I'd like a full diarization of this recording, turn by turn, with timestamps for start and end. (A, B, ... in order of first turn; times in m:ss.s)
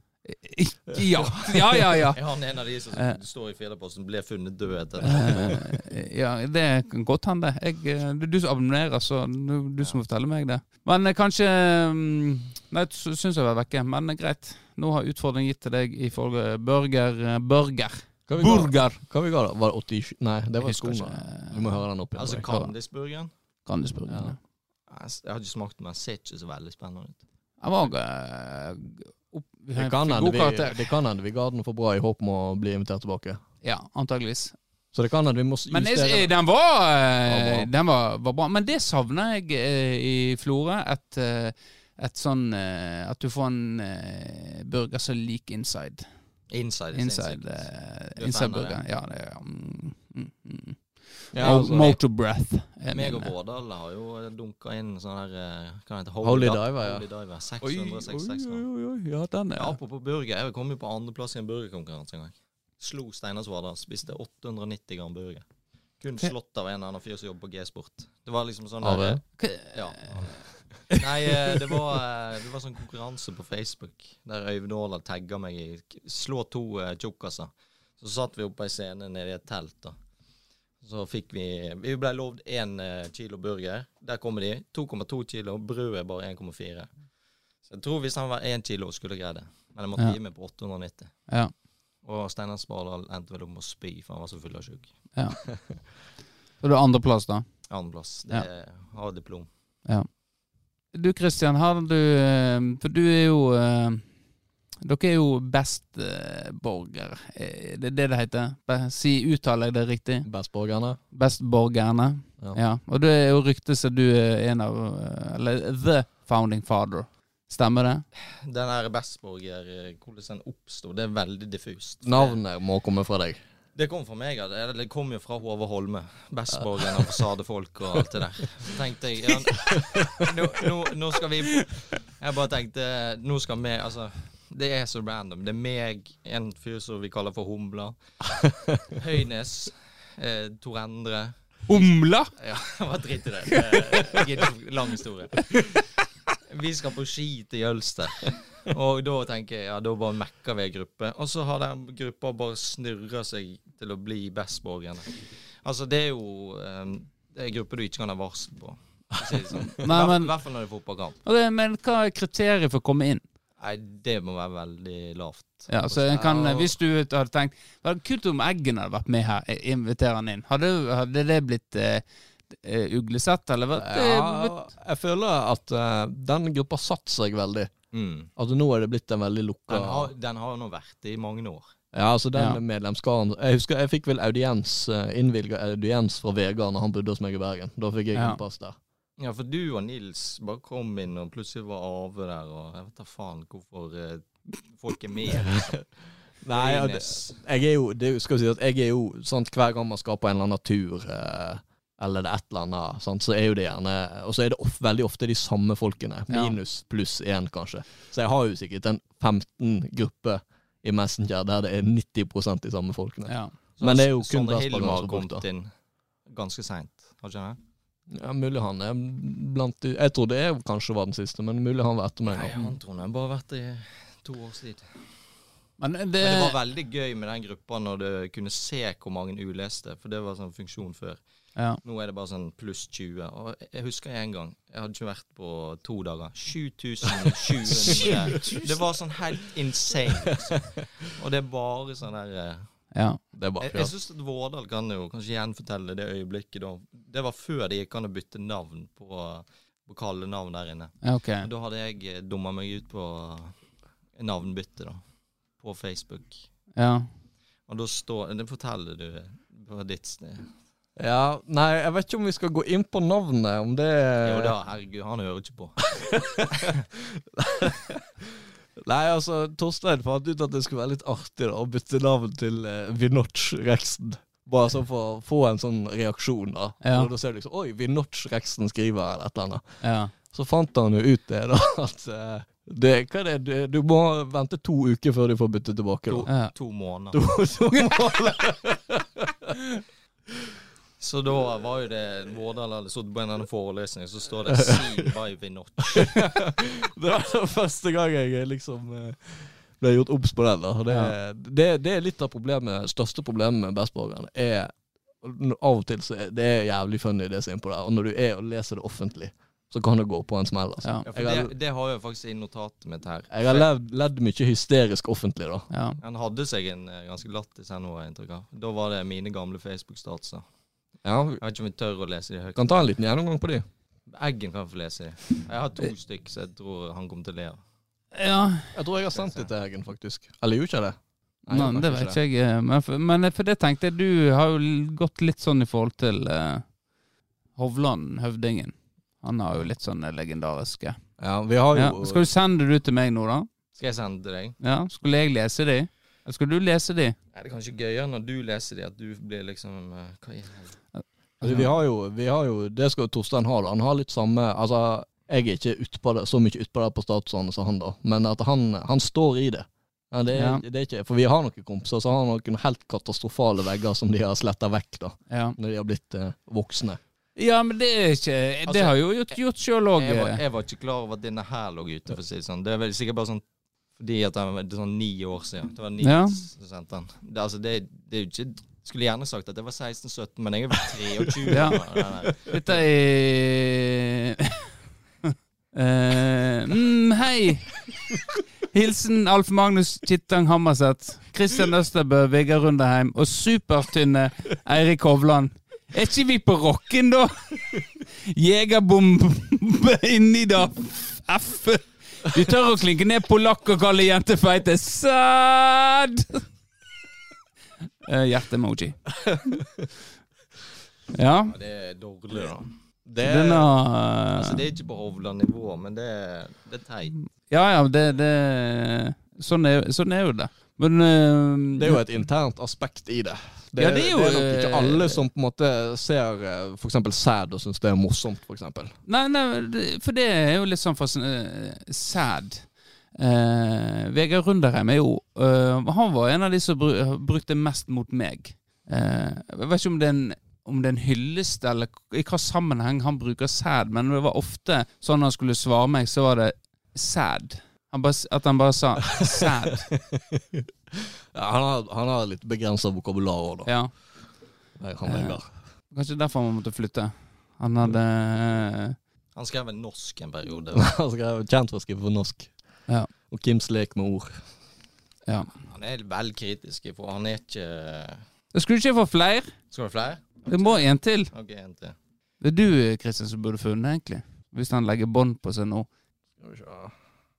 0:00.3-0:02.2 A
0:01.0-0:01.8 B
0:02.1-0:05.7 C
0:05.0-0:19.0 A
0:18.3-0:22.5 B
0:20.6-0:21.8 A
0:22.2-0:23.3 C
0:22.4-0:22.7 A
0:23.7-0:24.4 A
0:24.1-0:24.4 B
0:24.9-0:27.2 C
0:27.6-0:31.0 A
0:29.8-0:33.4 B
0:33.6-0:34.6 A
0:34.9-0:36.3 B
0:35.7-0:46.0 A
0:37.3-0:37.7 B
0:46.5-0:48.8 C
0:46.9-0:53.3 A
0:51.3-0:52.0 B
0:51.4-0:52.0 C
0:52.9-0:58.6 C
0:56.2-0:57.0 B
0:57.6-0:59.8 A
0:59.6-1:05.4 C
1:06.0-1:20.0 C
1:08.8-1:09.2 B
1:09.4-1:10.4 A
1:20.8-1:26.9 C
1:27.7-1:31.1 C
1:32.0-1:34.9 C
1:35.2-1:35.4 A
1:36.6-1:37.5 A
1:37.7-1:39.5 C
1:40.9-1:44.0 A
1:44.8-1:50.3 A
1:50.3-1:51.0 B
1:51.1-1:58.0 A
1:58.4-2:02.4 C
2:02.0-2:03.4 B
2:03.8-2:18.0 C
2:06.8-2:07.1 B
2:09.5-2:10.4 B
2:18.4-2:18.8 B
2:18.9-2:21.3 C
2:21.7-2:22.3 A
2:22.4-2:25.9 C
2:26.5-2:41.2 C
2:39.2-2:39.7 B
2:39.8-2:40.3 A
2:41.2-2:43.2 A
2:43.6-2:45.7 C
2:45.7-2:54.6 A
2:45.9-2:46.7 B
2:53.8-2:57.7 B
2:57.9-2:58.3 C
2:58.4-3:00.1 B
2:59.7-3:01.7 C
3:01.9-3:08.8 B
3:08.1-3:08.4 A
3:09.2-3:15.8 C
3:15.3-3:15.8 B
3:16.4-3:35.4 B
3:16.5-3:17.4 C
3:26.3-3:26.6 A
3:33.3-3:33.5 A
3:33.8-3:35.7 C
3:36.3-3:37.6 C
3:38.1-3:42.8 B
3:42.3-3:45.0 C
3:45.8-3:46.6 A
3:46.2-3:51.2 C
3:51.8-4:02.7 C
3:57.2-3:58.8 B
4:02.9-4:03.2 A
4:03.3-4:03.9 B
4:03.6-4:13.6 C
4:11.0-4:11.5 A
4:14.2-4:15.0 C
4:15.6-4:16.5 C
4:16.8-4:17.1 A
4:17.7-4:20.5 C
4:21.0-4:24.5 B
4:24.2-4:26.0 C
4:25.9-4:28.2 B
4:28.8-4:39.6 B
4:36.8-4:37.1 A
4:39.8-4:40.1 A
4:40.3-4:46.3 B
4:46.1-4:47.2 C
4:46.3-4:46.5 A
4:47.1-4:49.6 B
4:51.0-4:56.2 C
4:54.5-4:55.1 B
4:55.9-5:11.5 B
5:00.9-5:01.1 A
5:11.1-5:13.7 C
5:13.3-5:15.7 B
5:15.7-5:16.0 A
5:16.0-5:20.4 C
5:21.0-5:21.4 B
5:21.4-5:22.9 C
5:22.6-5:23.6 B
5:24.1-5:27.6 C
5:28.1-5:28.8 A
5:28.7-5:32.2 B
5:29.1-5:29.5 C
5:31.5-5:36.7 A
5:37.6-5:41.0 A
5:41.2-5:42.3 B
5:41.7-5:43.5 A
5:43.8-5:44.6 C
5:44.6-5:47.2 A
5:47.3-5:50.8 C
5:51.0-5:51.7 A
5:51.4-6:07.0 B
6:00.3-6:00.6 A
6:05.3-6:05.6 A
6:07.4-6:10.4 A
6:08.7-6:09.4 C
6:10.0-6:13.4 C
6:14.0-6:22.8 C
6:16.0-6:16.4 A
6:21.3-6:21.7 B
6:21.5-6:24.7 A
6:25.2-6:27.9 A
6:28.7-6:37.6 A
6:38.2-6:46.4 A
6:48.0-6:49.0 A
6:49.2-6:49.9 B
6:51.1-6:51.6 A
6:51.5-6:52.7 C
6:53.0-6:53.7 B
6:53.2-6:54.6 A
6:54.4-6:57.2 C
6:57.2-7:02.0 A
7:01.8-7:08.9 B
7:03.8-7:05.2 A
7:09.1-7:29.9 A
7:29.2-7:33.7 B
7:33.6-7:33.9 A
7:34.8-7:35.5 B
7:35.0-7:35.4 A
7:35.9-7:39.0 A
7:39.4-7:40.9 C
7:40.7-7:42.5 B
7:43.3-7:44.4 B
7:45.3-7:45.5 A
7:45.6-7:48.2 C
7:48.5-7:49.6 A
7:49.7-7:52.0 C
7:50.5-7:51.3 A
7:52.4-7:55.9 A
7:56.4-7:56.9 B